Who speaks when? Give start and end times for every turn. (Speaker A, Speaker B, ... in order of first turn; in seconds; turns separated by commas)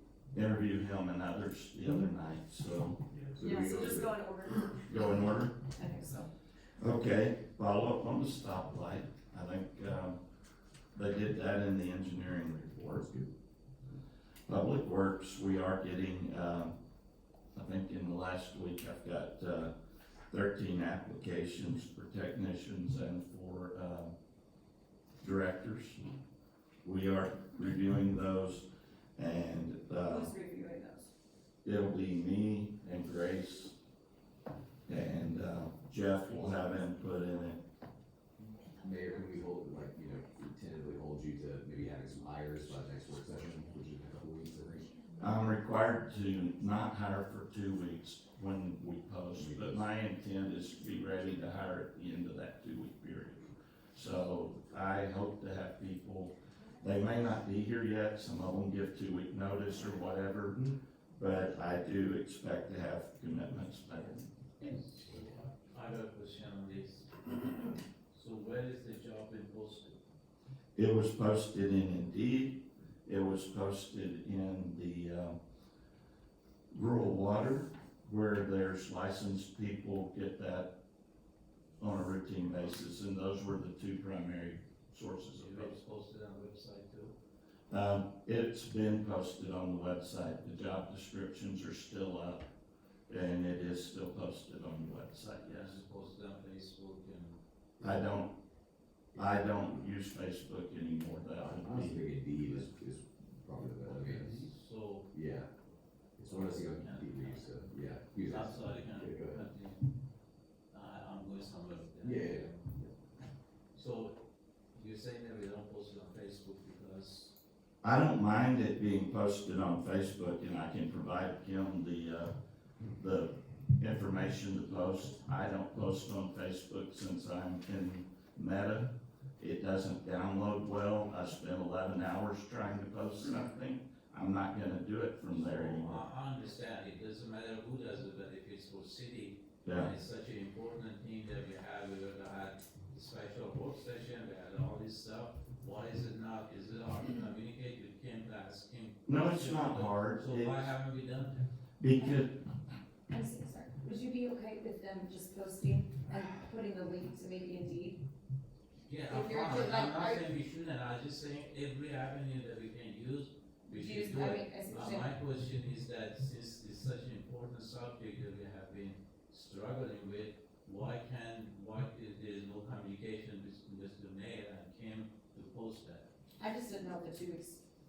Speaker A: 0.3-3.0, Speaker B: 3.1-4.2, Speaker C: 3.4-6.3, Speaker A: 4.9-5.5, Speaker A: 6.8-10.2, Speaker A: 10.9-13.1, Speaker B: 13.0-13.3, Speaker A: 14.5-16.7, Speaker A: 17.5-19.7, Speaker A: 20.3-24.1, Speaker A: 25.2-26.0, Speaker A: 26.8-28.6, Speaker A: 29.2-30.3, Speaker C: 30.1-31.1, Speaker A: 31.6-33.7, Speaker A: 34.9-37.6, Speaker B: 38.8-44.9, Speaker A: 45.2-60.6, Speaker B: 49.3-49.8, Speaker A: 61.1-64.3, Speaker D: 64.6-70.0, Speaker A: 70.8-75.4, Speaker A: 76.7-80.7, Speaker A: 81.8-85.7, Speaker D: 85.3-87.1, Speaker A: 87.7-92.5, Speaker A: 93.1-95.8, Speaker D: 95.5-97.4, Speaker A: 97.8-98.3, Speaker A: 99.1-102.0, Speaker B: 101.5-104.5, Speaker D: 103.9-105.1, Speaker B: 105.1-105.5, Speaker B: 106.2-109.5, Speaker D: 106.2-107.7, Speaker D: 108.2-109.8, Speaker D: 110.7-112.9, Speaker B: 112.0-112.5, Speaker D: 113.7-114.2, Speaker D: 114.7-117.3, Speaker A: 117.8-122.3, Speaker A: 123.0-136.0, Speaker D: 135.3-151.5, Speaker A: 139.6-139.9, Speaker A: 149.1-150.7, Speaker A: 151.8-152.3, Speaker C: 151.9-152.2, Speaker C: 153.1-158.0, Speaker D: 158.9-176.1, Speaker C: 159.1-160.3, Speaker C: 163.7-165.1, Speaker C: 176.4-177.6